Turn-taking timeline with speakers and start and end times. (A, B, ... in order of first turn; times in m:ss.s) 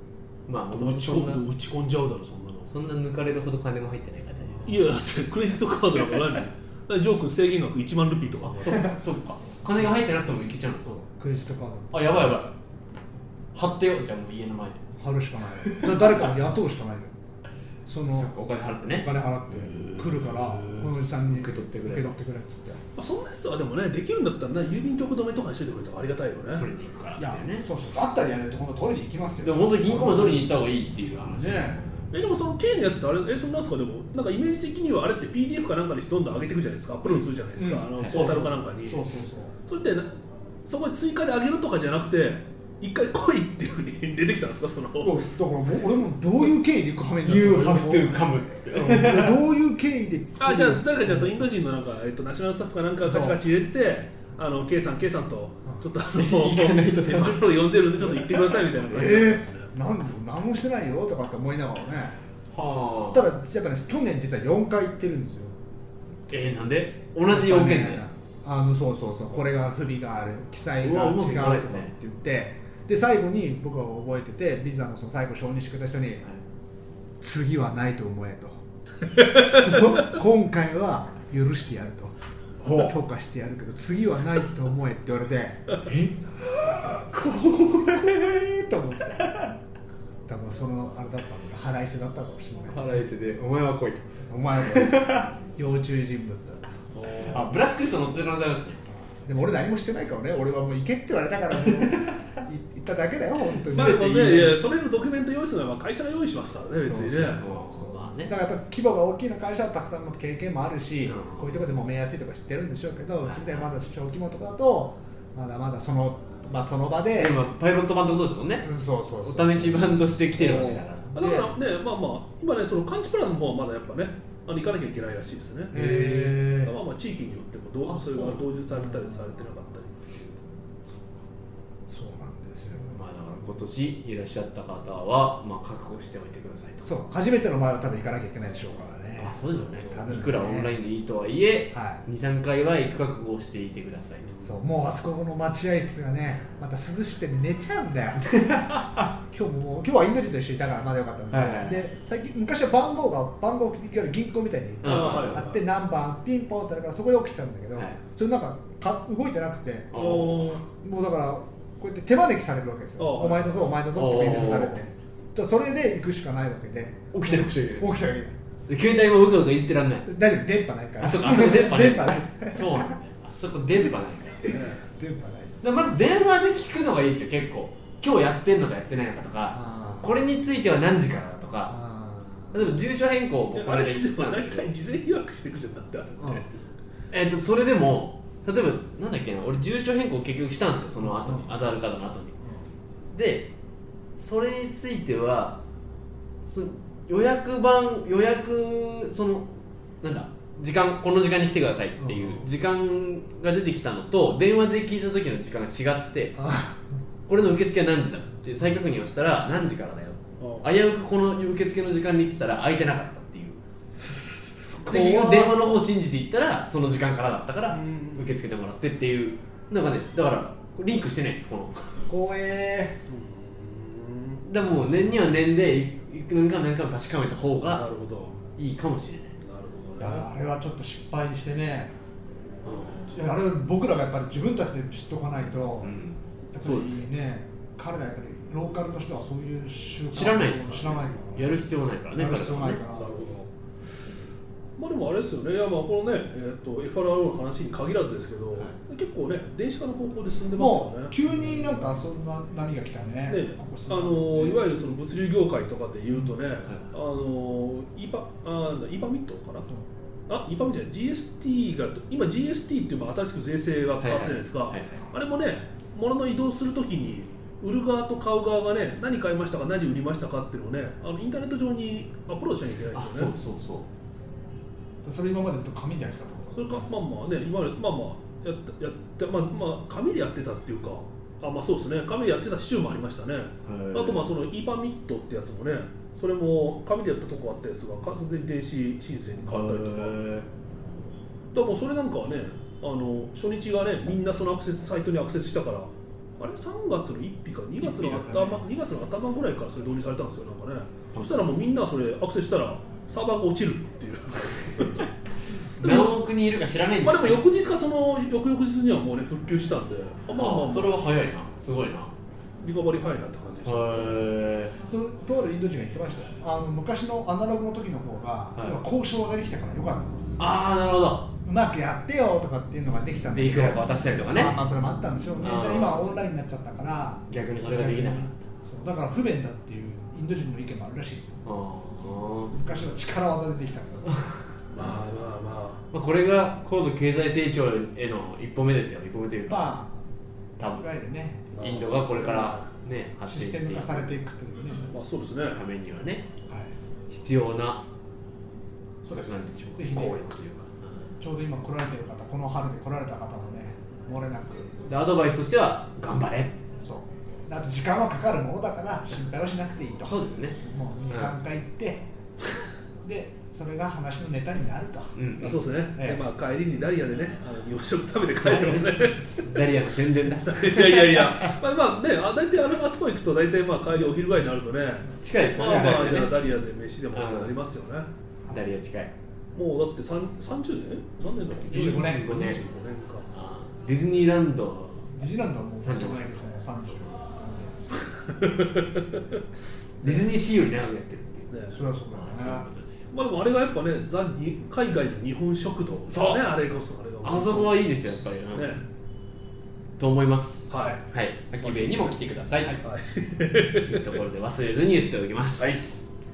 0:00.5-0:01.4 A
0:00.7-0:02.7 B
0:02.7-0:04.8 A
0:04.4-0:04.8 C
0:04.6-0:08.9 B
0:08.6-0:11.0 A
0:08.6-0:08.9 C
0:10.8-0:12.2 C
0:11.9-0:12.5 A
0:13.5-0:14.8 A
0:15.0-0:17.1 C
0:15.7-0:16.2 A
0:17.9-0:18.3 C
0:18.1-0:19.1 A
0:18.9-0:22.8 C
0:21.3-0:22.2 A
0:23.0-0:26.7 B
0:26.5-0:27.7 A
0:27.2-0:30.7 C
0:29.4-0:32.1 A
0:31.3-0:31.8 C
0:32.1-0:39.0 B
0:37.0-0:39.5 C
0:38.0-0:38.4 A
0:39.6-0:40.1 B
0:40.6-0:45.3 B
0:45.0-0:51.4 C
0:47.2-0:49.4 A
0:50.4-0:59.7 B
0:53.0-0:53.4 C
0:56.1-0:57.4 A
0:58.9-1:02.2 C
1:02.5-1:03.2 A
1:03.1-1:05.6 C
1:06.3-1:08.0 A
1:07.3-1:16.2 C
1:10.8-1:11.9 A
1:17.2-1:18.6 C
1:19.1-1:20.0 B
1:19.6-1:27.1 C
1:22.6-1:22.9 B
1:26.6-1:28.3 A
1:27.8-1:29.5 C
1:30.3-1:33.0 C
1:32.7-1:35.3 A
1:34.3-1:36.8 C
1:36.9-1:37.5 B
1:37.0-1:38.8 A
1:38.9-1:44.6 C
1:43.7-1:47.4 B
1:43.8-1:44.0 A
1:46.8-1:57.4 C
1:47.4-1:48.3 A
1:51.0-1:51.6 A
1:53.2-1:53.7 A
1:57.2-2:01.2 A
1:58.6-2:01.5 C
2:01.1-2:10.4 B
2:05.7-2:06.8 C
2:07.8-2:08.4 A
2:08.7-2:09.8 C
2:11.9-2:13.0 C
2:12.9-2:16.9 A
2:16.8-2:20.8 C
2:19.2-2:24.3 A
2:21.7-2:22.0 C
2:24.4-2:28.3 C
2:28.3-2:29.0 A
2:29.1-2:40.0 C
2:31.3-2:31.9 A
2:34.8-2:35.5 A
2:34.8-2:35.6 B
2:39.9-2:40.4 A
2:39.9-2:40.6 B
2:40.8-2:48.4 C
2:43.0-2:43.5 B
2:43.9-2:44.9 A
2:47.1-2:47.9 A
2:48.7-2:50.1 A
2:50.0-2:52.9 C
2:51.0-2:54.6 A
2:54.4-2:55.6 C
2:54.5-2:54.8 B
2:55.6-3:01.8 A
2:59.5-3:00.1 C
3:01.7-3:02.7 C
3:02.5-3:04.7 A
3:03.5-3:06.5 B
3:06.2-3:06.4 C
3:07.1-3:12.4 A
3:11.2-3:11.5 C
3:13.1-3:13.5 A
3:14.2-3:15.6 A
3:16.4-3:19.5 A
3:20.0-3:26.4 A
3:22.0-3:22.5 C
3:26.4-3:26.8 C
3:27.3-3:33.6 A
3:30.4-3:30.7 B
3:34.7-3:35.7 C
3:34.9-3:42.0 A
3:37.7-3:38.4 B
3:42.1-3:43.0 C
3:43.1-3:44.4 B
3:44.4-3:47.9 A
3:47.6-3:48.4 B
3:48.6-3:49.4 A
3:49.4-3:50.3 B
3:50.0-3:51.9 C
3:52.6-3:53.1 B
3:53.1-3:55.9 C
3:55.8-3:57.1 A
3:56.5-4:01.6 C
4:00.1-4:02.8 A
4:02.2-4:03.2 C
4:02.9-4:03.5 B
4:04.8-4:11.9 B
4:10.6-4:14.8 C
4:13.3-4:19.7 B
4:20.3-4:33.3 B
4:24.0-4:24.9 A
4:32.9-4:33.9 A
4:35.0-4:36.9 C
4:36.5-4:50.2 B
4:43.6-4:44.3 A
4:49.5-4:50.5 A
4:51.5-5:05.1 B
4:57.8-4:58.6 C
5:05.8-5:06.2 B
5:05.8-5:07.4 A
5:07.0-5:11.1 B
5:10.3-5:12.1 A
5:12.6-5:14.2 B
5:13.6-5:14.8 A
5:14.8-5:20.2 C
5:20.4-5:21.3 A
5:21.4-5:31.4 C
5:23.3-5:24.6 A
5:25.4-5:26.1 A
5:27.3-5:28.4 A
5:31.4-5:32.5 A
5:32.5-5:34.2 C
5:34.7-5:35.8 B
5:35.9-5:39.7 A
5:39.5-5:40.0 C
5:40.6-5:40.9 A
5:40.8-5:41.5 C
5:41.6-5:42.7 B
5:41.6-5:44.2 A
5:43.3-5:44.9 C
5:44.9-5:45.6 B
5:45.5-5:46.3 A
5:47.1-5:47.8 A
5:49.0-5:50.2 C
5:49.1-5:51.1 A
5:51.2-5:54.7 C
5:54.8-5:56.6 A
5:56.8-6:02.0 C
6:00.0-6:01.4 A
6:03.0-6:05.2 C
6:05.2-6:05.6 A
6:05.4-6:09.5 B
6:05.9-6:06.2 C
6:08.4-6:11.3 A
6:10.5-6:18.1 B
6:15.2-6:16.4 A
6:15.6-6:16.2 C
6:17.1-6:17.6 A
6:18.5-6:19.1 A
6:19.6-6:23.3 B
6:21.7-6:22.6 A
6:21.7-6:22.3 C
6:23.3-6:25.2 A
6:25.1-6:28.1 C
6:25.8-6:26.9 A
6:28.0-6:29.2 B
6:30.0-6:31.5 A
6:31.5-6:31.8 B
6:31.7-6:32.7 C
6:32.1-6:33.1 A
6:33.1-6:37.9 B
6:36.1-6:36.4 A
6:37.2-6:38.8 A
6:38.5-6:38.8 B
6:40.0-6:42.8 A
6:40.7-6:41.1 B
6:41.6-6:42.2 B
6:42.8-6:44.0 B
6:43.8-6:45.9 A
6:45.6-6:46.0 B